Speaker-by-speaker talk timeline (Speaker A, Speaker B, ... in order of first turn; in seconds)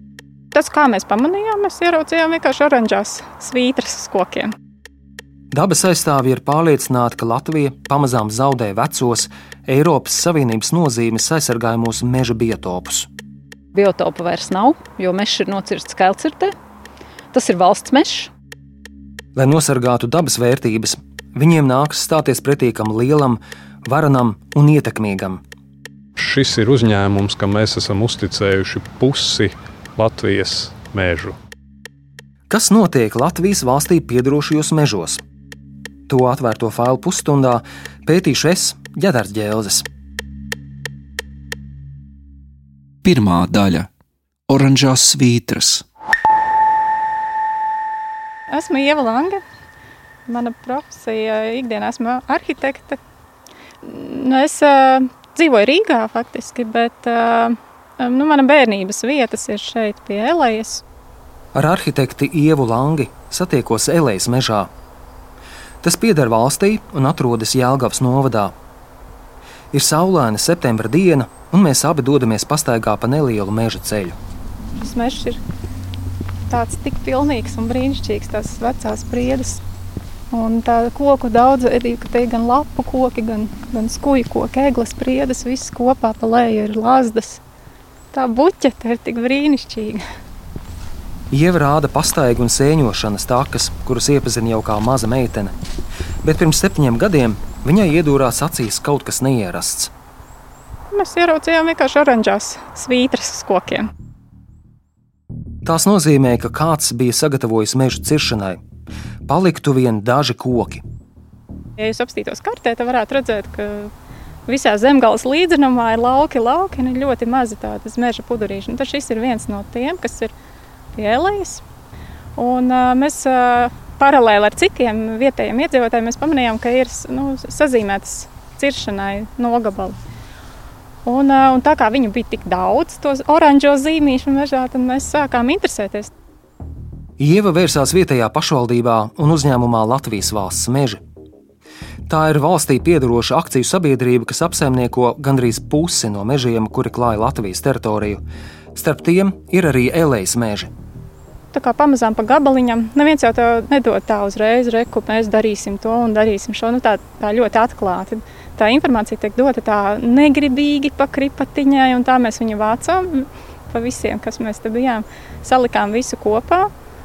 Speaker A: 0.5-4.5, 48.5-49.4, 50.3-53.0, 53.8-60.8, 74.8-75.4, 76.5-79.6, 80.3-87.4, 88.1-90.0, 100.9-103.9, 111.8-113.9, 114.5-120.3, 121.0-121.6, 122.4-130.0, 131.1-136.1, 151.5-166.7
Speaker B: 5.5-13.1, 19.4-25.4, 32.5-35.2, 36.1-39.9, 61.5-64.7, 65.8-68.5, 69.7-74.2, 91.3-95.5, 96.2-99.9, 105.7-108.6, 109.3-110.8, 137.2-141.0, 142.1-148.2, 148.8-150.7
Speaker C: 13.7-16.6, 17.3-18.3
Speaker D: 26.2-31.4
Speaker E: 43.0-43.9, 44.5-45.8